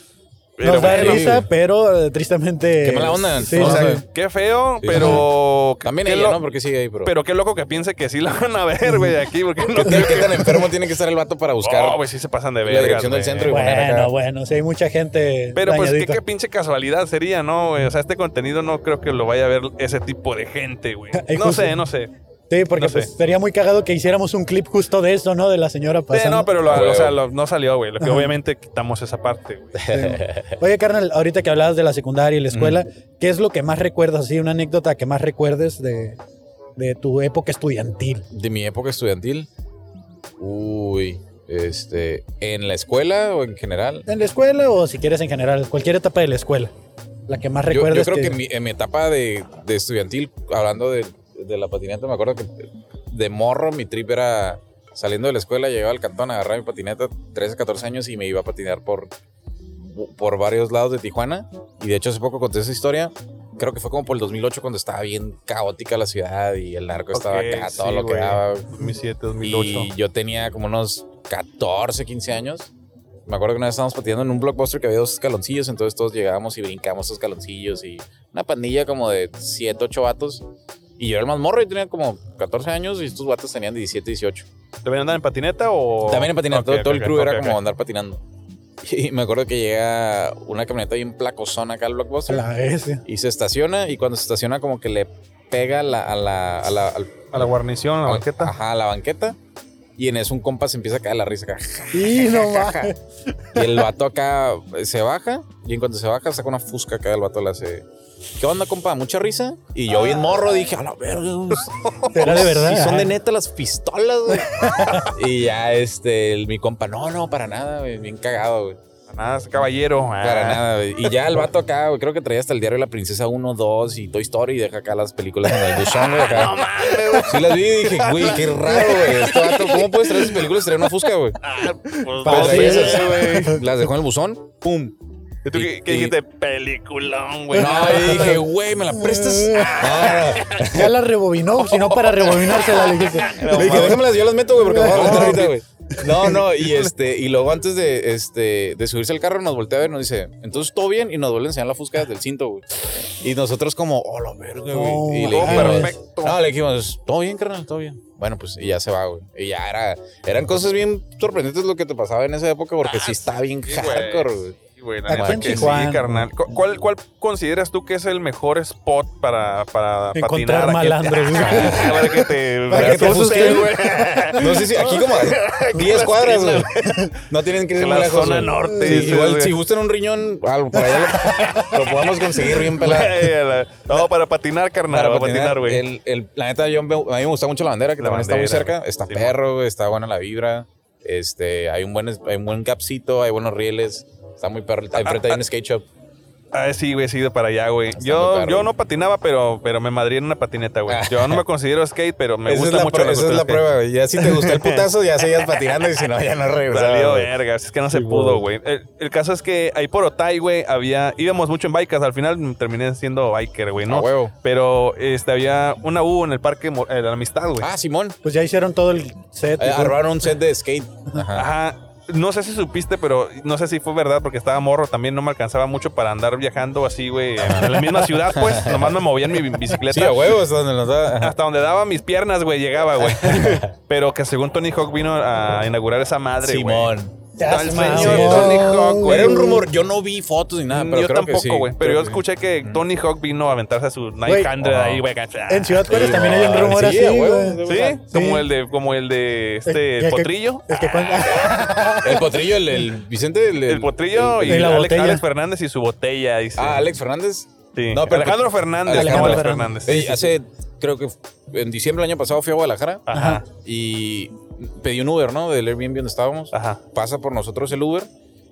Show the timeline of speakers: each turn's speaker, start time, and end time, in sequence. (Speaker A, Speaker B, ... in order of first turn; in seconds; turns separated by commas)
Speaker A: 0.6-1.4, Speaker B: 0.6-4.0, Speaker C: 0.7-1.5, Speaker C: 2.8-4.0, Speaker A: 3.5-6.4, Speaker C: 4.8-5.3, Speaker B: 4.9-5.2, Speaker C: 5.8-7.1, Speaker A: 7.0-10.7, Speaker B: 8.9-9.1, Speaker C: 9.7-12.0, Speaker B: 9.9-10.2, Speaker A: 11.6-13.5, Speaker C: 12.7-14.1, Speaker B: 13.5-16.2, Speaker A: 15.6-22.1, Speaker B: 21.1-21.8, Speaker B: 22.5-26.5, Speaker A: 22.8-23.1, Speaker A: 26.1-29.8, Speaker C: 26.6-27.2, Speaker B: 28.0-28.3, Speaker C: 29.8-30.6, Speaker B: 29.9-36.2, Speaker C: 32.5-32.8, Speaker B: 36.8-38.3, Speaker C: 38.3-39.5, Speaker C: 40.4-44.1, Speaker B: 44.1-46.7, Speaker B: 47.3-48.4, Speaker C: 47.7-59.1, Speaker C: 59.8-68.7, Speaker A: 67.1-69.9, Speaker C: 69.4-72.7, Speaker C: 73.3-80.5, Speaker C: 81.0-84.5, Speaker A: 84.8-87.6, Speaker C: 86.1-88.2, Speaker C: 88.8-92.4, Speaker B: 92.3-93.0, Speaker C: 93.1-97.5, Speaker A: 97.3-98.5, Speaker C: 98.0-99.4, Speaker C: 100.0-102.9, Speaker B: 101.9-103.0, Speaker B: 103.5-103.8, Speaker C: 103.5-107.8, Speaker C: 108.4-118.8, Speaker A: 111.8-112.3, Speaker B: 112.1-113.2, Speaker B: 114.5-115.1, Speaker A: 119.1-121.1, Speaker C: 120.2-131.4, Speaker A: 125.7-130.5, Speaker A: 131.4-133.6, Speaker B: 132.2-133.7, Speaker C: 132.2-134.9, Speaker A: 135.4-138.4, Speaker C: 135.5-136.2, Speaker B: 137.5-139.9, Speaker C: 137.5-140.9, Speaker A: 139.6-140.7, Speaker B: 140.5-144.0, Speaker A: 141.7-144.1, Speaker C: 143.4-165.8, Speaker B: 144.6-146.4, Speaker A: 144.7-145.6, Speaker A: 146.2-146.9, Speaker B: 154.7-156.0, Speaker A: 155.2-156.4, Speaker A: 162.8-179.6, Speaker B: 165.1-166.3, Speaker B: 170.2-174.5, Speaker C: 171.3-173.8, Speaker C: 174.3-176.7, Speaker C: 177.3-183.3, Speaker B: 178.8-179.0, Speaker B: 181.0-181.7, Speaker A: 181.2-185.8, Speaker C: 184.9-195.9, Speaker A: 188.0-189.3, Speaker A: 194.9-195.4, Speaker A: 196.5-203.7, Speaker C: 197.9-198.7, Speaker C: 200.9-201.4, Speaker C: 202.5-207.3, Speaker A: 204.2-206.1, Speaker A: 206.7-217.7, Speaker C: 207.9-208.5, Speaker C: 213.9-214.3, Speaker C: 217.6-218.2, Speaker B: 218.2-220.0, Speaker C: 219.6-221.5, Speaker A: 221.3-230.4, Speaker C: 227.4-228.9, Speaker C: 229.9-231.3, Speaker A: 231.2-239.5, Speaker C: 233.0-233.7, Speaker C: 236.4-237.2, Speaker B: 237.4-239.7, Speaker C: 237.7-242.8, Speaker A: 240.7-246.6, Speaker B: 244.3-244.5, Speaker C: 244.6-245.0, Speaker B: 245.5-248.5, Speaker C: 245.9-248.0, Speaker A: 247.7-251.4, Speaker B: 249.7-252.6, Speaker C: 252.0-254.8, Speaker A: 253.7-256.9, Speaker B: 254.4-255.2, Speaker C: 256.6-268.1, Speaker A: 257.8-260.3, Speaker B: 258.9-260.2, Speaker A: 263.1-263.5, Speaker B: 263.1-263.4, Speaker A: 266.5-266.8